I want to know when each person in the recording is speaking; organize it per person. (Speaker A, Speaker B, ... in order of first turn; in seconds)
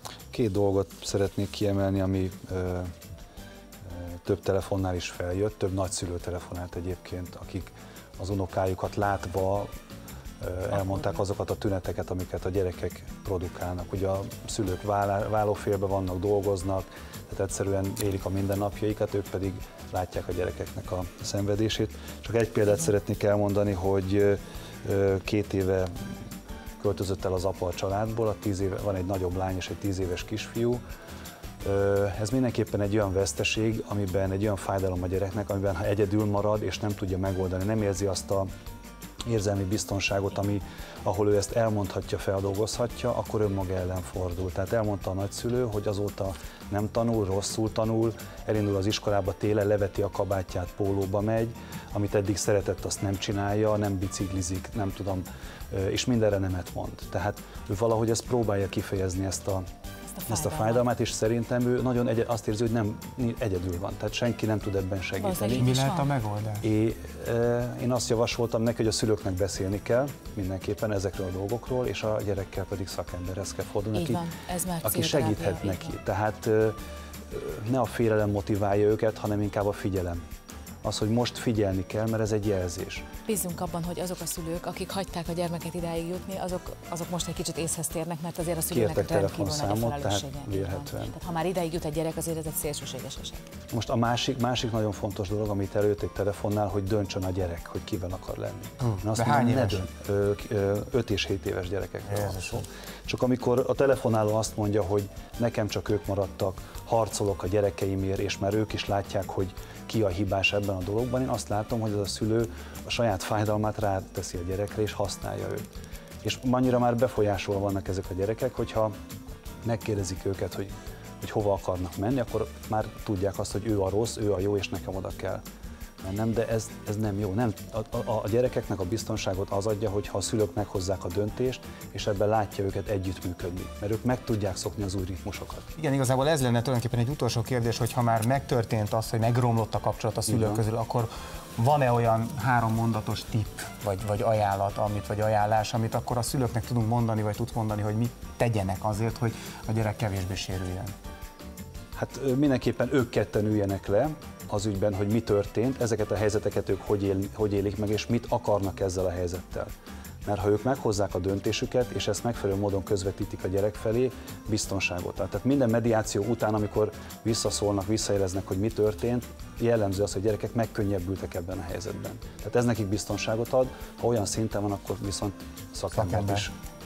Speaker A: 0.3-2.9, 3.8-9.7, 10.4-26.1, 26.8-30.8, 31.6-38.5, 39.2-59.6, 60.3-65.7, 66.6-74.3, 74.8-76.8, 77.3-80.2, 80.8-83.0, 88.7-91.1, 93.7-115.6, 116.2-118.9, 119.6-125.4, 126.0-135.7, 140.3-140.6, 151.9-159.7, 160.2-176.5
Speaker B: 10.7-11.2, 60.1-60.8, 65.2-66.1, 73.9-75.9, 83.2-93.4
Speaker C: 65.5-66.6, 98.8-99.8, 102.1-102.6, 135.8-150.9, 175.9-176.5